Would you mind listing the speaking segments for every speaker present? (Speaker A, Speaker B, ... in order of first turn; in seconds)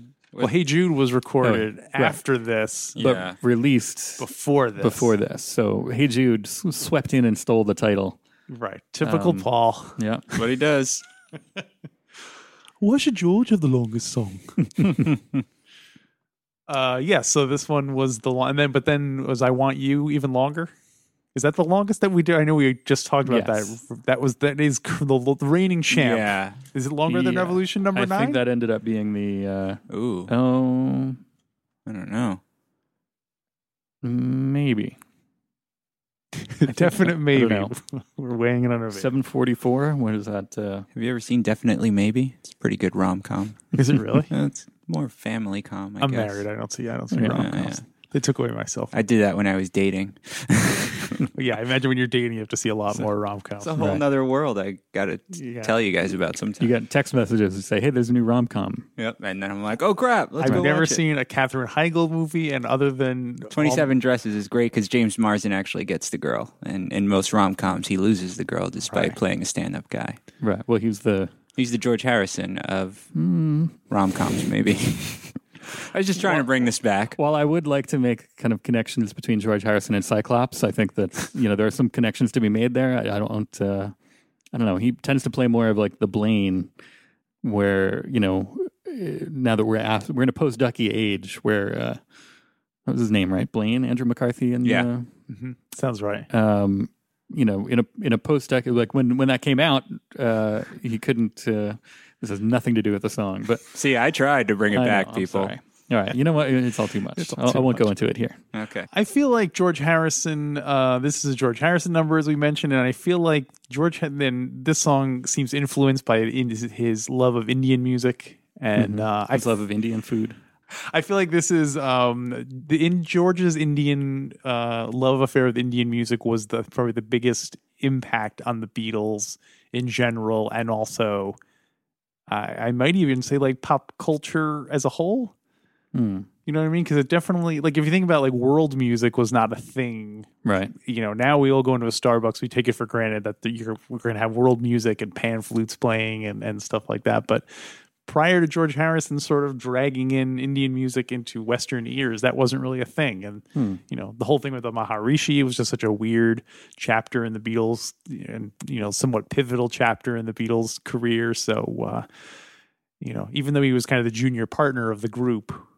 Speaker A: 0.3-0.6, 2.9-3.4, 10.3-11.0, 25.9-26.6, 29.9-30.3, 31.9-32.4, 40.9-46.4, 47.3-47.8, 48.9-51.2, 53.6-56.7, 59.0-61.0, 63.5-70.2, 71.5-73.1, 73.9-77.2, 94.6-94.9, 103.7-105.5, 108.5-108.9
Speaker B: 0.4-3.0, 4.2-5.1, 8.5-10.0, 12.8-14.6, 16.7-20.7, 21.3-28.4, 36.6-39.1, 43.7-44.3, 46.0-48.9, 51.3-53.7, 55.5-55.7, 60.4-63.9, 95.3-96.3, 107.2-107.9, 108.9-119.5, 120.7-131.4, 132.3-135.3, 136.4-162.1, 163.0-165.6
Speaker C: 1.4-2.2, 3.0-8.2, 9.0-10.4, 23.2-23.7, 27.1-31.2, 34.0-35.0, 36.7-37.7, 38.9-40.9, 47.1-47.5, 53.8-54.0, 56.6-58.9, 70.4-71.3, 73.1-73.8, 76.2-76.5, 77.1-83.9, 84.5-86.7, 87.4-92.0, 92.8-95.1, 96.3-103.8, 104.7-108.4, 118.8-120.4, 135.9-136.3, 140.4-140.7, 153.5-153.8